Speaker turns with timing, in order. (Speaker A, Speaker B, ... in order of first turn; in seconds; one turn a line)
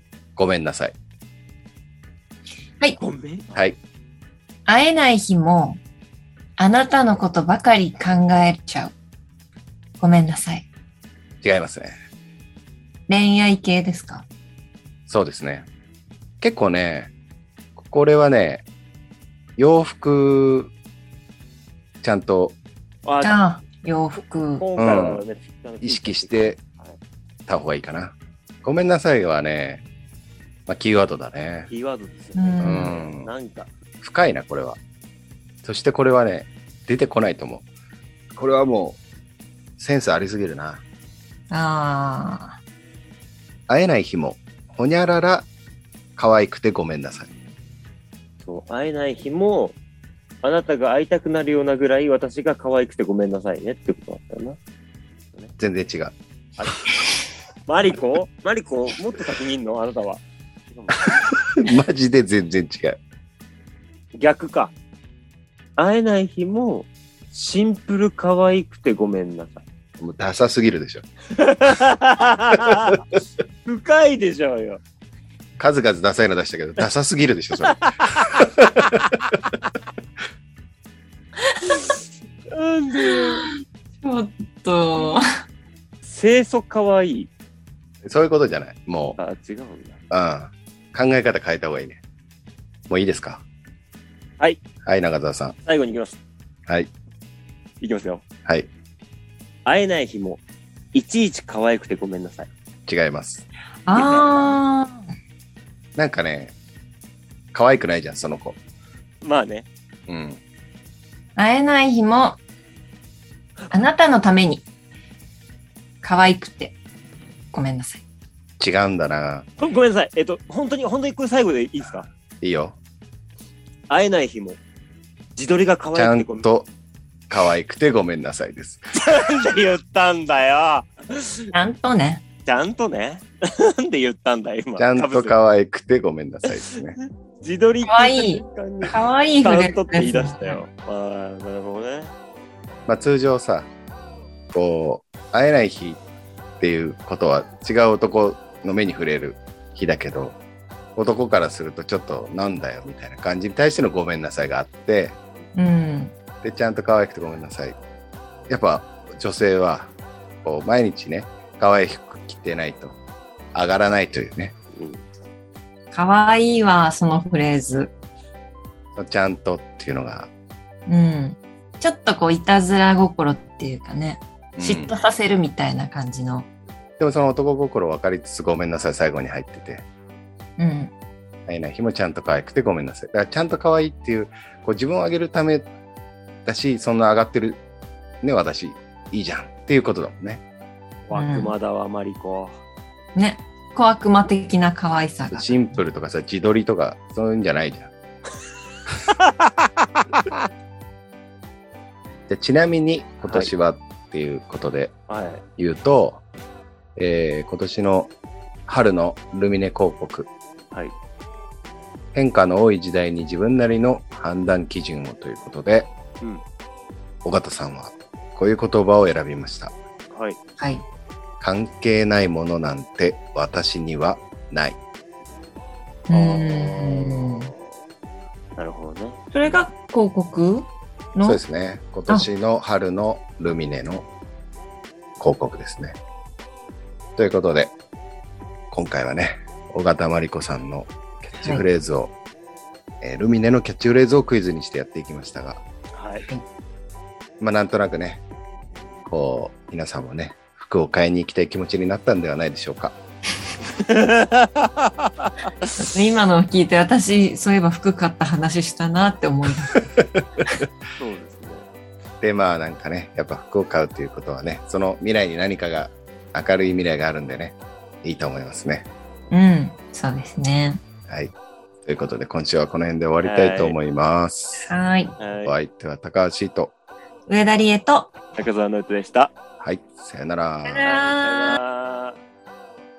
Speaker A: 0.4-0.9
Speaker B: 3.0-3.5
Speaker C: 4.7-5.8
Speaker C: 6.6-8.9
Speaker C: 10.0-10.7
Speaker A: 11.4-11.9
Speaker C: 13.1-14.3
Speaker A: 15.1-15.7
Speaker A: 16.4-17.1
Speaker A: 17.8-18.6
Speaker A: 19.6-20.7
Speaker A: 22.0-22.6
Speaker B: 23.1-23.4
Speaker C: 23.2-24.7
Speaker B: 24.6-27.0
Speaker A: 24.8-25.2
Speaker A: 25.8-26.6
Speaker A: 27.5-29.8
Speaker A: 30.7-31.7
Speaker B: 31.7-33.7
Speaker C: 32.4-33.0
Speaker A: 32.6-33.3
Speaker A: 34.0-34.8
Speaker A: 35.6-37.6
Speaker A: 38.3-39.0
Speaker A: 39.8-40.8
Speaker C: 41.5-42.6
Speaker A: 43.7-45.5
Speaker A: 46.2-47.3
Speaker B: 48.5-49.8
Speaker B: 50.4-54.6
Speaker A: 55.6-56.1
Speaker B: 56.6-56.9
Speaker B: 57.7-61.3
Speaker A: 61.0-63.0
Speaker B: 64.1-64.7
Speaker B: 65.8-69.6
Speaker A: 70.0-71.0
Speaker B: 71.3-73.0
Speaker A: 72.7-73.0
Speaker B: 73.7-74.8
Speaker A: 75.6-79.2
Speaker B: 77.7-78.3
Speaker C: 81.5-81.8
Speaker B: 82.5-83.5
Speaker C: 83.0-83.5
Speaker C: 84.0-85.3
Speaker B: 86.0-87.3
Speaker A: 88.0-89.2
Speaker B: 89.2-90.0
Speaker A: 90.1-92.0
Speaker A: 92.9-93.4
Speaker A: 94.8-95.6
Speaker B: 95.7-96.2
Speaker B: 97.8-98.2
Speaker B: 99.7-100.4
Speaker B: 100.9-102.5
Speaker A: 102.9-103.5
Speaker C: 103.9-105.0
Speaker B: 103.9-104.6
Speaker A: 106.0-106.5
Speaker A: 107.5-108.6
Speaker B: 109.2-109.7
Speaker A: 110.1-110.4
Speaker C: 111.4-112.4
Speaker C: 113.7-114.7
Speaker C: 116.0-116.8
Speaker C: 117.5-118.0
Speaker A: 118.6-119.5
Speaker B: 119.6-122.1
Speaker A: 122.4-122.8
Speaker B: 123.9-124.6
Speaker B: 125.4-126.5
Speaker A: 126.0-126.7
Speaker A: 127.3-128.9
Speaker B: 128.9-131.5
Speaker C: 131.5-132.2
Speaker B: 132.5-135.4
Speaker A: 134.8-137.0
Speaker B: 137.4-142.1
Speaker C: 137.8-140.6
Speaker A: 142.9-143.7
Speaker A: 144.5-146.0
Speaker A: 146.6-150.4
Speaker A: 151.0-155.2
Speaker C: 155.6-156.1
Speaker A: 156.4-157.8
Speaker A: 158.5-159.9
Speaker A: 160.4-163.0
Speaker A: 163.5-164.5
Speaker B: 164.8-165.0
Speaker C: 165.9-167.9
Speaker A: 169.0-170.3
Speaker C: 170.9-176.5
Speaker A: 174.6-174.9
Speaker A: 177.0-179.8
Speaker C: 180.6-180.9
Speaker A: 181.5-185.7
Speaker A: 186.4-187.6
Speaker A: 188.2-190.4
Speaker B: 191.1-192.6
Speaker C: 191.2-191.5
Speaker C: 193.2-195.5
Speaker A: 195.3-197.9
Speaker B: 199.2-199.5
Speaker A: 202.3-204.9
Speaker B: 203.2-203.5
Speaker B: 205.1-205.4
Speaker A: 205.6-206.2
Speaker A: 207.0-208.1
Speaker A: 208.7-210.3
Speaker A: 212.1-215.9
Speaker A: 217.2-219.7
Speaker B: 220.1-220.4
Speaker A: 221.4-224.8
Speaker C: 226.1-227.5
Speaker B: 226.1-227.6
Speaker B: 228.6-229.6
Speaker C: 229.3-231.4
Speaker A: 231.2-234.1
Speaker A: 235.2-236.0
Speaker A: 237.2-237.7
Speaker A: 238.7-242.1
Speaker A: 243.0-245.6
Speaker B: 245.9-246.3
Speaker A: 247.4-248.2
Speaker A: 249.1-253.0
Speaker B: 253.7-255.7
Speaker C: 255.8-259.9
Speaker A: 260.0-260.6
Speaker B: 261.0-261.6
Speaker A: 262.2-268.9
Speaker C: 269.3-270.8
Speaker A: 271.1-274.7
Speaker B: 273.2-273.8
Speaker C: 274.6-275.1
Speaker B: 275.2-275.5
Speaker A: 275.4-276.7
Speaker C: 277.3-278.1
Speaker B: 278.4-279.3
Speaker A: 279.6-280.9
Speaker C: 280.6-281.6
Speaker B: 280.8-282.2